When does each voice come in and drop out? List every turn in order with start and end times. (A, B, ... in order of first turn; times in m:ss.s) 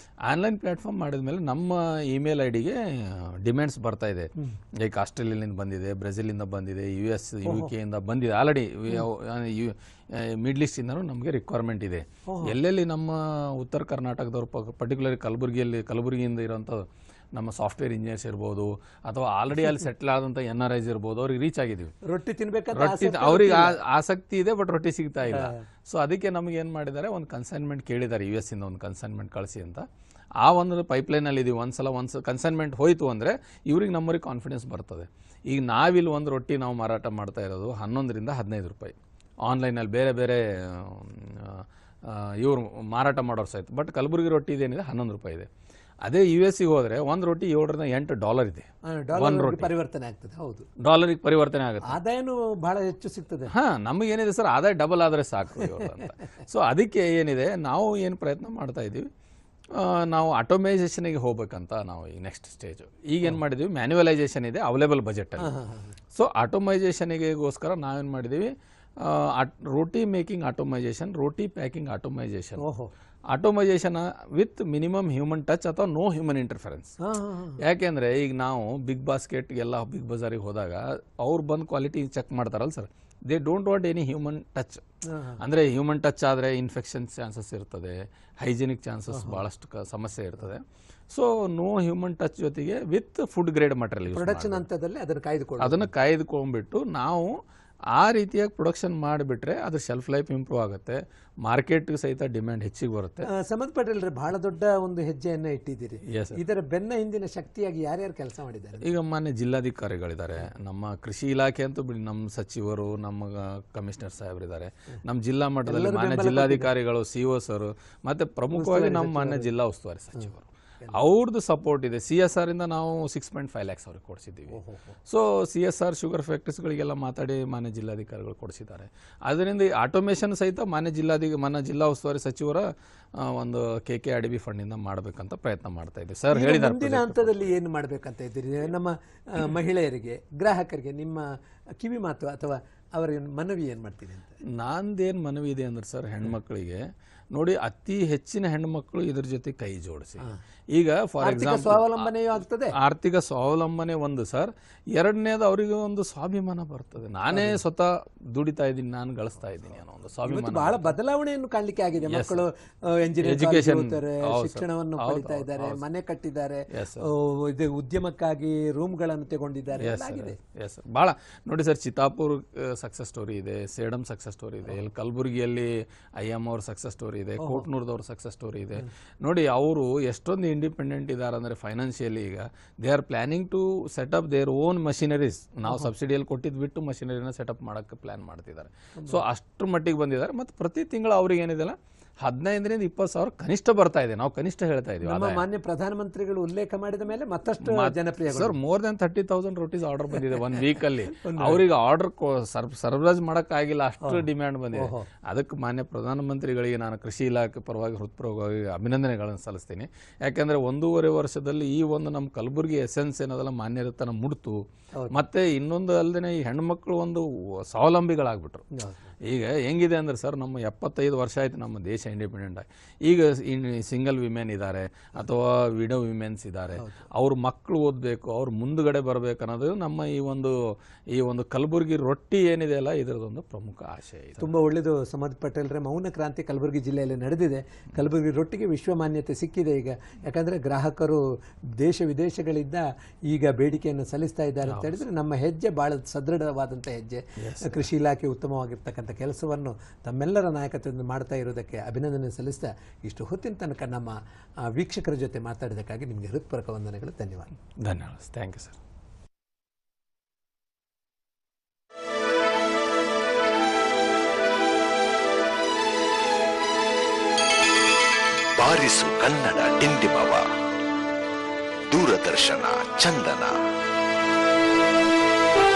0:00.3-0:21.9 A
0:07.4-0:07.7 B
0:12.3-0:12.6 B
0:22.0-0:23.8 B
0:22.7-0:29.9 A
0:25.3-0:25.6 B
0:30.4-0:45.5 A
0:46.0-0:49.7 A
0:48.9-0:50.7 B
0:50.8-0:52.0 A
0:51.8-0:53.5 B
0:53.5-0:59.1 A
0:59.7-1:05.5 A
1:05.4-1:06.0 B
1:06.1-1:12.6 A
1:12.6-1:12.9 B
1:13.3-1:17.0 A
1:17.0-1:17.6 B
1:17.6-1:24.8 A
1:25.1-1:25.4 B
1:25.4-1:34.6 A
1:29.1-1:29.4 B
1:34.1-1:35.9 B
1:35.6-1:37.4 A
1:37.9-1:43.3 A
1:43.2-1:48.9 B
1:46.1-1:46.4 A
1:48.8-2:17.5 A
1:55.7-1:56.7 B
1:58.6-1:59.5 B
2:04.5-2:05.0 B
2:16.3-2:24.4 B
2:24.5-2:26.8 A
2:27.3-2:32.1 A
2:31.2-2:32.8 B
2:32.7-2:41.0 A
2:37.3-2:37.6 B
2:40.3-2:50.4 B
2:42.1-2:42.5 A
2:43.2-2:45.8 A
2:46.7-2:47.1 A
2:49.8-3:15.4 A
2:57.4-2:57.7 B
3:09.0-3:09.2 B
3:15.0-3:18.6 B
3:17.6-3:38.7 A
3:21.2-3:21.6 B
3:24.0-3:25.1 B
3:34.9-3:35.2 B
3:38.7-3:39.1 B
3:39.3-3:50.6 A
3:51.1-3:54.5 A
3:54.4-4:01.2 B
4:01.8-4:17.5 B
4:04.7-4:05.0 A
4:07.4-4:07.9 A
4:17.8-4:18.8 A
4:28.6-4:30.5 C
4:31.9-4:33.6 C